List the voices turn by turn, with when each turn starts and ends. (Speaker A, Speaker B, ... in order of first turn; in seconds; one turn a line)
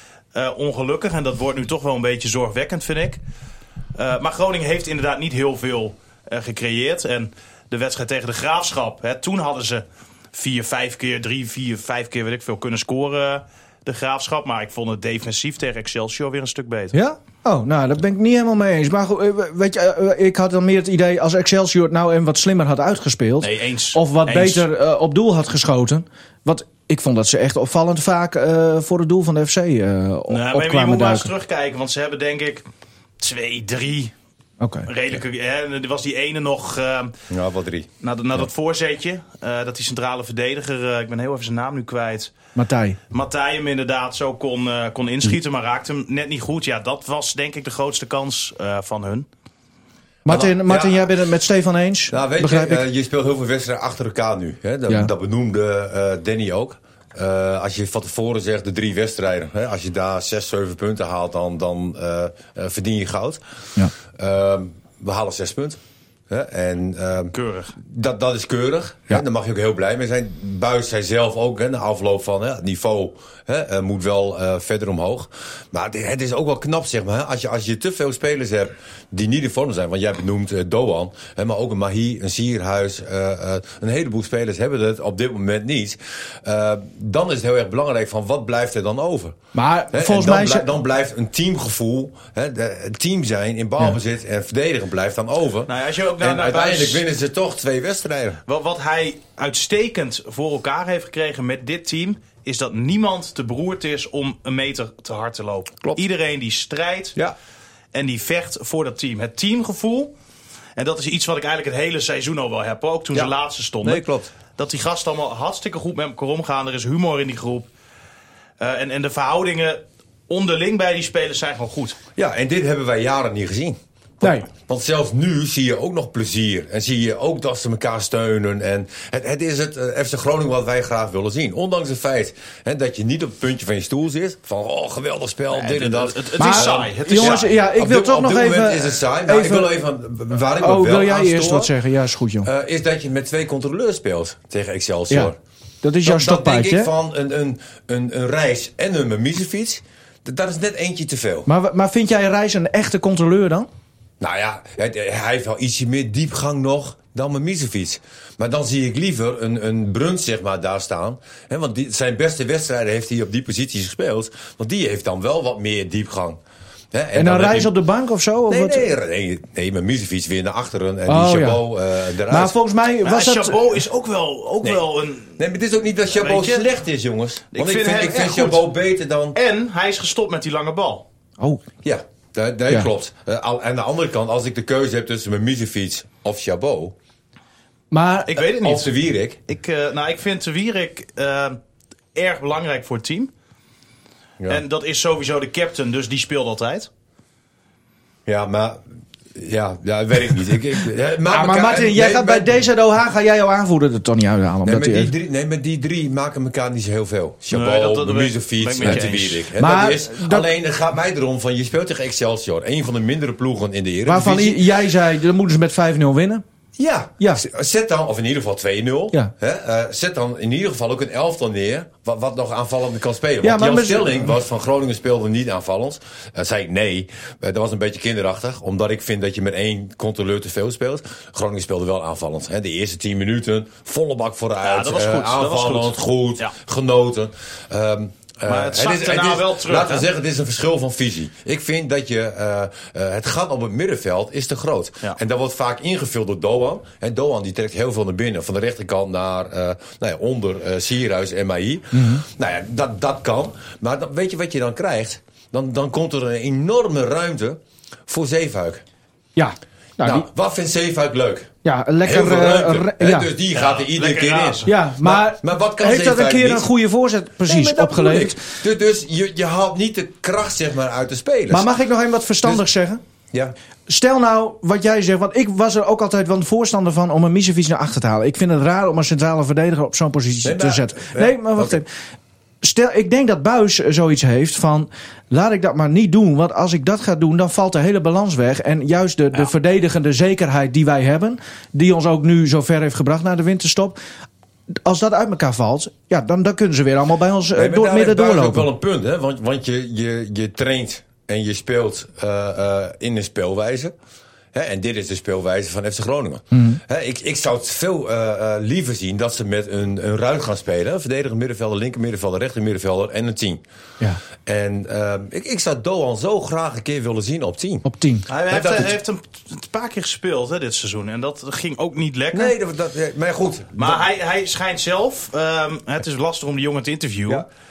Speaker A: 0.3-3.2
Speaker A: 4.0-16.9
Speaker B: 16.9-31.3
Speaker A: 23.4-24.6
Speaker A: 30.3-32.6
Speaker A: 33.2-34.1
Speaker B: 34.6-34.9
Speaker A: 34.9-37.1
Speaker C: 37.3-37.9
Speaker A: 38.0-42.3
Speaker B: 42.5-43.0
Speaker A: 43.1-49.3
Speaker C: 50.2-51.1
Speaker B: 50.2-52.8
Speaker C: 52.1-63.4
Speaker C: 64.1-65.8
Speaker C: 66.3-89.4
Speaker A: 67.3-67.7
Speaker B: 89.5-90.7
Speaker C: 89.9-98.4
Speaker A: 95.7-97.0
Speaker A: 98.5-107.2
Speaker A: 107.9-110.1
Speaker A: 110.8-114.0
Speaker C: 113.1-114.3
Speaker A: 114.6-117.7
Speaker A: 118.6-122.0
Speaker C: 122.2-141.7
Speaker B: 124.2-124.5
Speaker A: 135.5-137.5
Speaker B: 136.4-139.7
Speaker B: 140.6-142.5
Speaker C: 142.4-145.4
Speaker B: 145.8-146.9
Speaker C: 146.1-151.5
Speaker B: 151.5-153.7
Speaker C: 154.2-166.4
Speaker C: 166.9-167.7
Speaker B: 167.1-168.9
Speaker C: 168.5-172.6
Speaker B: 171.1-171.6
Speaker B: 172.3-173.7
Speaker A: 173.1-175.3
Speaker C: 175.4-179.4
Speaker A: 176.2-176.7
Speaker A: 177.5-178.7
Speaker A: 179.3-181.1
Speaker C: 181.8-186.9
Speaker B: 187.9-188.3
Speaker A: 188.3-188.9
Speaker C: 188.4-189.4
Speaker A: 189.5-191.6
Speaker A: 192.2-193.3
Speaker A: 194.5-196.9
Speaker C: 198.3-198.8
Speaker C: 199.3-202.6
Speaker B: 201.3-205.1
Speaker C: 204.7-214.6
Speaker A: 207.5-209.5
Speaker B: 209.6-210.5
Speaker B: 214.1-216.4
Speaker C: 216.8-258.8
Speaker B: 217.2-217.4
Speaker B: 223.4-224.3
Speaker A: 234.6-236.5
Speaker A: 238.5-240.1
Speaker B: 251.9-252.2
Speaker B: 259.4-260.3
Speaker C: 260.0-261.5
Speaker B: 261.6-263.3
Speaker C: 262.0-266.7
Speaker A: 263.5-264.7
Speaker B: 264.7-268.4
Speaker C: 267.5-271.7
Speaker B: 271.5-273.0
Speaker B: 273.9-281.9
Speaker C: 280.4-281.8
Speaker B: 282.6-294.0
Speaker B: 294.8-298.7
Speaker C: 297.6-303.9
Speaker C: 304.5-313.6
Speaker B: 306.5-306.8
Speaker C: 314.4-317.9
Speaker B: 317.8-318.3
Speaker A: 318.3-322.5
Speaker C: 318.5-319.0
Speaker C: 322.3-324.0
Speaker A: 323.8-327.5